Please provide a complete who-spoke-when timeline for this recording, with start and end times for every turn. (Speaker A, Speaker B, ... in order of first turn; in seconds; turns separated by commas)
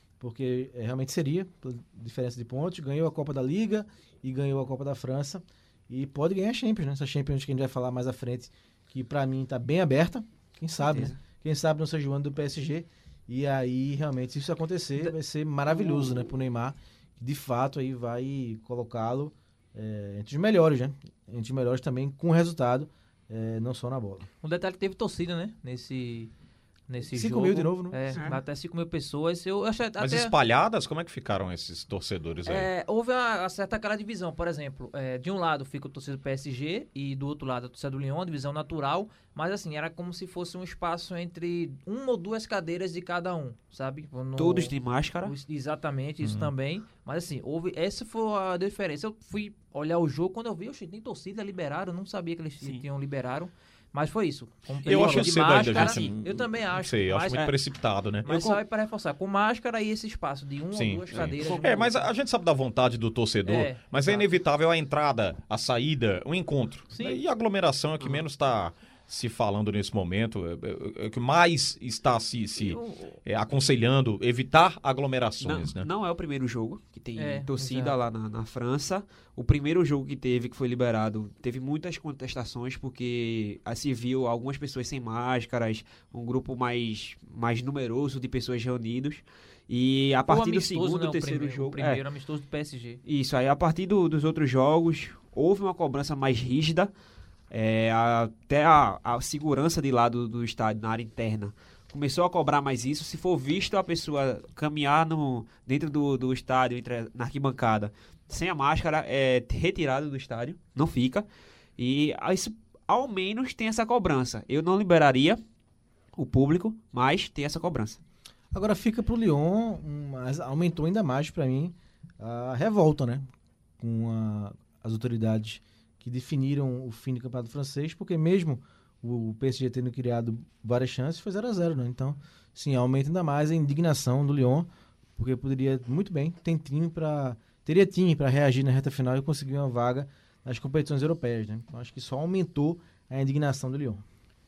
Speaker A: 0.2-24.2, Speaker B: 10.8-11.2, Speaker C: 24.4-26.3, Speaker C: 26.9-30.3, Speaker A: 27.0-28.1, Speaker B: 28.1-28.4, Speaker D: 30.0-32.7, Speaker C: 32.5-57.4, Speaker B: 44.4-45.3, Speaker D: 46.2-46.5, Speaker B: 54.8-56.2, Speaker D: 54.9-58.2, Speaker C: 58.2-62.1, Speaker B: 58.2-58.6, Speaker D: 60.7-75.9, Speaker B: 61.1-61.7, Speaker C: 63.4-64.2, Speaker C: 66.9-67.2, Speaker C: 72.6-73.2, Speaker B: 75.4-92.0, Speaker C: 77.2-78.0, Speaker C: 90.3-93.0, Speaker B: 93.0-96.9, Speaker B: 97.5-111.2, Speaker B: 111.8-115.4, Speaker B: 116.2-118.0, Speaker A: 118.5-123.3, Speaker A: 123.8-144.0